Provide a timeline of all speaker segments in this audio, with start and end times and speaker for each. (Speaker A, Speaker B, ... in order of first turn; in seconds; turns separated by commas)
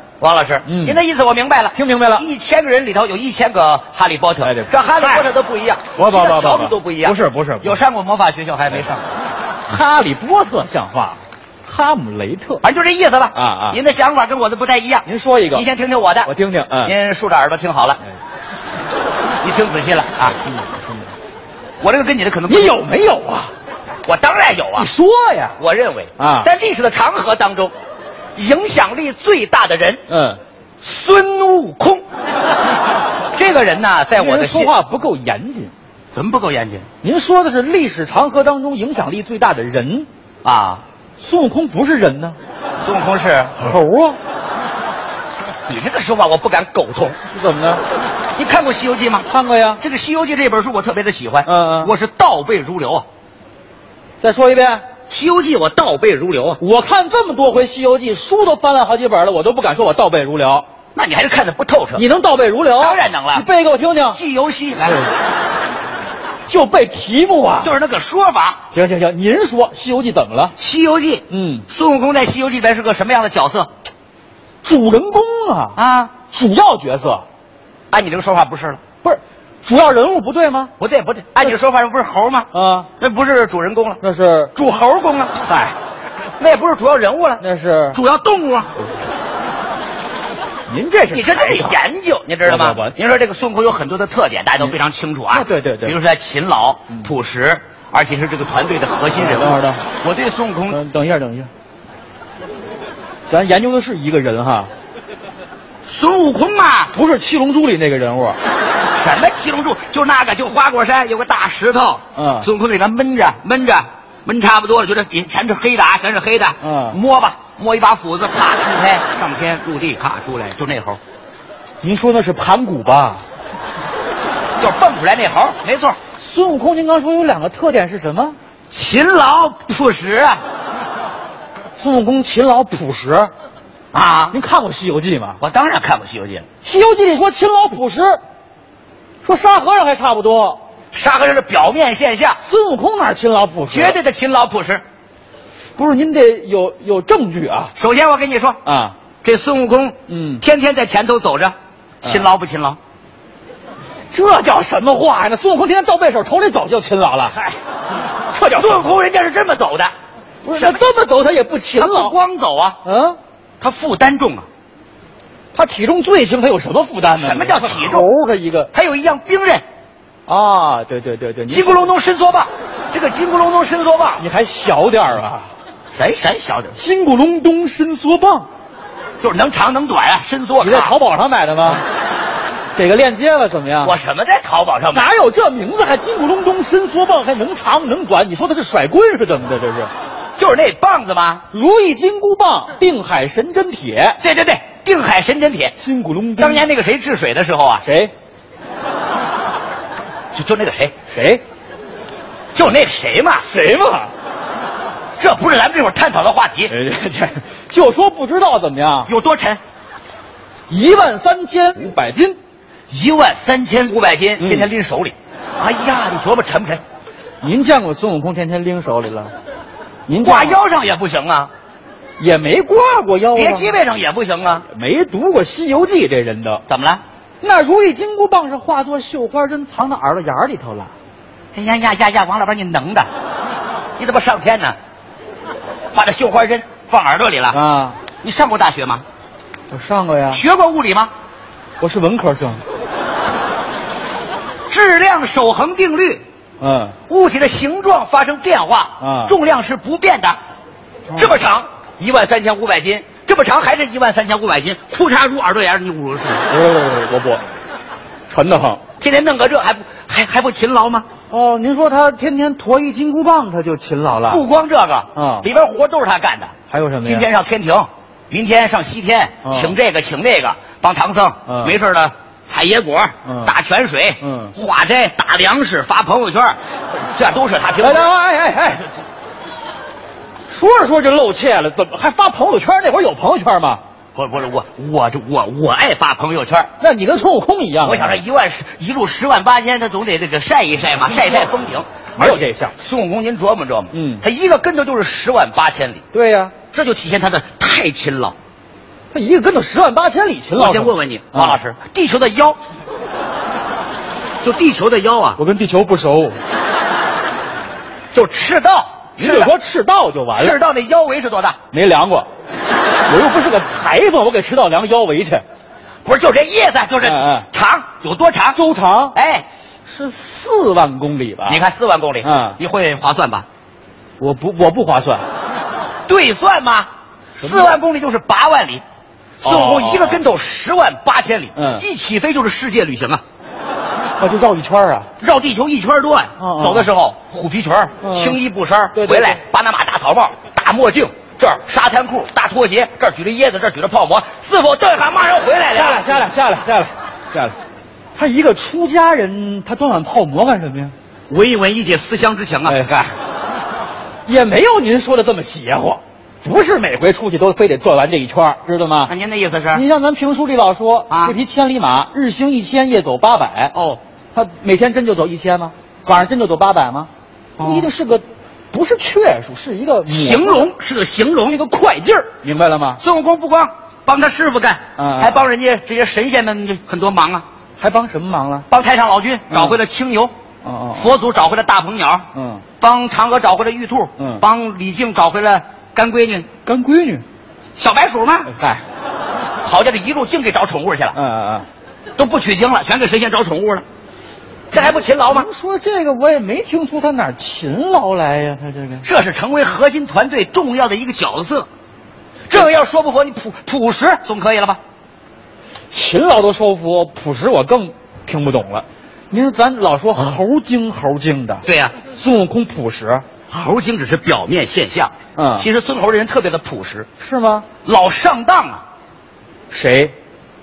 Speaker A: 0.2-9.0, Speaker B: 0.7-1.0, Speaker B: 1.7-2.2, Speaker B: 4.4-5.3, Speaker B: 6.0-7.8, Speaker B: 9.7-12.6, Speaker A: 12.6-16.3, Speaker B: 13.3-13.8, Speaker B: 15.0-15.6, Speaker B: 16.2-16.9, Speaker A: 16.8-18.0, Speaker A: 19.4-20.4, Speaker B: 20.5-20.9, Speaker A: 21.8-22.8, Speaker B: 22.5-23.5, Speaker A: 24.0-24.9, Speaker B: 24.8-25.6, Speaker A: 25.6-27.7, Speaker B: 26.2-26.5, Speaker A: 28.3-30.0, Speaker B: 30.1-30.4, Speaker A: 30.8-32.0, Speaker A: 33.3-34.7, Speaker B: 34.1-35.7, Speaker A: 36.1-36.9, Speaker B: 37.0-40.1, Speaker A: 40.4-40.8, Speaker B: 41.2-42.4, Speaker A: 42.8-43.5, Speaker B: 43.6-44.2, Speaker A: 45.7-47.2, Speaker B: 47.3-47.8, Speaker A: 48.3-49.3, Speaker B: 49.3-49.8, Speaker A: 49.8-53.0, Speaker B: 51.4-51.9, Speaker B: 54.2-54.9, Speaker A: 55.1-56.6, Speaker B: 56.6-60.6, Speaker A: 60.9-62.0, Speaker B: 61.9-64.2, Speaker A: 62.8-63.5, Speaker A: 64.1-65.0, Speaker B: 66.5-67.7, Speaker A: 67.6-68.6, Speaker B: 68.7-70.5, Speaker A: 70.6-73.7, Speaker B: 71.3-71.7, Speaker B: 74.6-77.2, Speaker A: 75.8-76.1, Speaker A: 77.9-78.8, Speaker B: 79.0-80.7, Speaker A: 80.8-82.5, Speaker B: 82.5-82.9, Speaker A: 83.0-84.0, Speaker B: 84.0-84.5, Speaker A: 84.5-85.4, Speaker B: 85.5-85.7, Speaker A: 86.4-88.7, Speaker B: 87.4-88.0, Speaker B: 90.7-91.8, Speaker A: 91.1-100.8, Speaker B: 92.4-92.9, Speaker B: 95.3-96.0, Speaker B: 99.1-99.8, Speaker B: 100.7-101.5, Speaker B: 103.3-104.7, Speaker A: 105.8-106.9, Speaker B: 106.9-108.4, Speaker A: 109.0-121.0, Speaker B: 112.1-112.5, Speaker B: 116.6-117.0, Speaker B: 121.8-123.2, Speaker A: 124.6-126.0, Speaker B: 126.2-128.4, Speaker A: 128.7-130.4, Speaker B: 131.8-133.3, Speaker A: 133.9-134.3, Speaker B: 134.3-135.4, Speaker A: 135.4-136.5, Speaker B: 136.6-138.2, Speaker B: 139.2-140.6, Speaker A: 140.9-142.4, Speaker B: 142.4-144.0, Speaker A: 143.7-144.8, Speaker B: 145.8-147.7, Speaker A: 147.7-148.6, Speaker B: 148.6-148.9, Speaker A: 149.2-152.8, Speaker B: 150.1-150.4, Speaker B: 152.0-152.3, Speaker B: 154.1-157.6, Speaker B: 158.3-158.9, Speaker A: 158.5-159.9, Speaker B: 160.4-162.2, Speaker A: 160.5-160.8, Speaker A: 161.7-162.8, Speaker B: 162.8-163.2, Speaker A: 163.6-164.4, Speaker B: 165.5-168.7, Speaker A: 167.1-168.1, Speaker A: 168.7-169.6, Speaker B: 170.3-171.9, Speaker A: 171.5-174.2, Speaker B: 174.2-175.5, Speaker A: 175.9-176.8, Speaker B: 176.7-178.5, Speaker A: 179.2-180.9, Speaker B: 180.6-181.8, Speaker B: 182.7-183.9, Speaker A: 183.8-185.1, Speaker B: 184.9-189.9, Speaker A: 190.4-191.4, Speaker B: 191.5-194.2, Speaker A: 194.2-195.7, Speaker B: 195.8-196.7, Speaker A: 196.4-197.8, Speaker B: 197.8-198.1, Speaker A: 200.3-200.9, Speaker B: 201.1-201.4, Speaker A: 202.5-203.4, Speaker B: 203.4-204.1, Speaker A: 205.2-206.7, Speaker B: 206.7-209.1, Speaker A: 209.1-209.6, Speaker B: 210.7-212.4, Speaker A: 212.9-216.8, Speaker B: 214.4-214.7, Speaker B: 217.4-219.3, Speaker B: 220.1-220.6, Speaker A: 220.2-221.5, Speaker B: 222.2-223.8, Speaker A: 223.3-224.7, Speaker B: 224.7-226.6, Speaker A: 226.7-227.0, Speaker B: 227.4-230.9, Speaker A: 231.5-233.1, Speaker A: 234.0-234.8, Speaker A: 235.9-237.6, Speaker B: 237.5-238.0, Speaker A: 238.2-239.0, Speaker B: 239.7-240.4, Speaker A: 240.3-241.1, Speaker B: 241.8-242.6, Speaker A: 244.7-246.2, Speaker B: 246.6-246.9, Speaker A: 247.1-250.4, Speaker B: 249.0-249.3, Speaker A: 251.1-256.4, Speaker B: 256.5-257.4, Speaker B: 258.3-258.8, Speaker A: 259.0-261.1, Speaker B: 261.3-264.4, Speaker A: 264.3-276.6, Speaker B: 265.1-265.5, Speaker B: 266.7-267.3, Speaker B: 269.4-269.7, Speaker B: 271.5-271.7, Speaker B: 273.2-273.5, Speaker B: 274.2-274.5, Speaker A: 277.1-278.1, Speaker B: 277.8-279.0, Speaker B: 280.5-283.8, Speaker A: 284.1-286.7, Speaker B: 286.8-288.2, Speaker A: 287.8-296.0, Speaker B: 292.2-292.7, Speaker B: 293.9-294.2, Speaker B: 296.1-296.6, Speaker A: 296.7-298.4, Speaker B: 299.1-301.6, Speaker A: 300.5-302.6, Speaker A: 304.4-305.4, Speaker B: 305.4-306.4, Speaker A: 308.1-309.6, Speaker B: 309.2-310.6, Speaker A: 310.4-311.6, Speaker B: 311.7-312.3, Speaker B: 313.1-315.4, Speaker A: 316.0-318.6, Speaker B: 317.0-317.5, Speaker B: 318.5-319.1, Speaker A: 319.1-319.4, Speaker B: 319.9-321.6, Speaker A: 321.4-323.4, Speaker B: 322.2-322.6, Speaker B: 324.2-325.2, Speaker A: 326.1-328.8, Speaker B: 327.4-327.7, Speaker A: 329.4-333.2, Speaker B: 329.4-330.2, Speaker B: 331.5-331.9, Speaker B: 334.2-335.1, Speaker A: 335.2-346.1, Speaker B: 336.4-336.9, Speaker B: 338.0-338.4, Speaker B: 338.9-339.4, Speaker B: 345.7-347.6, Speaker B: 348.1-350.9, Speaker A: 351.3-352.8, Speaker B: 352.6-353.1, Speaker B: 354.2-359.1, Speaker A: 359.1-359.8, Speaker B: 359.7-363.7, Speaker A: 361.1-361.4, Speaker A: 363.7-364.0, Speaker B: 364.3-367.1, Speaker A: 367.6-367.9, Speaker B: 367.6-370.7, Speaker A: 370.1-371.6, Speaker B: 371.5-373.0, Speaker A: 373.0-377.4, Speaker B: 374.9-375.4, Speaker B: 377.8-378.6, Speaker A: 378.7-380.3, Speaker B: 379.5-379.8, Speaker B: 380.6-381.1, Speaker A: 381.0-382.2, Speaker B: 382.3-382.6, Speaker A: 382.8-386.5, Speaker B: 384.2-384.4, Speaker B: 386.6-387.2, Speaker A: 387.8-388.5, Speaker B: 388.4-388.8, Speaker A: 389.6-391.1, Speaker B: 391.1-391.7, Speaker A: 392.2-393.8, Speaker A: 394.7-395.5, Speaker B: 394.7-399.1, Speaker A: 399.0-401.7, Speaker A: 402.5-404.8, Speaker B: 405.9-413.2, Speaker A: 411.6-412.0, Speaker A: 413.5-417.1, Speaker B: 415.4-415.7, Speaker B: 417.2-417.6, Speaker A: 417.8-418.8, Speaker B: 419.7-420.1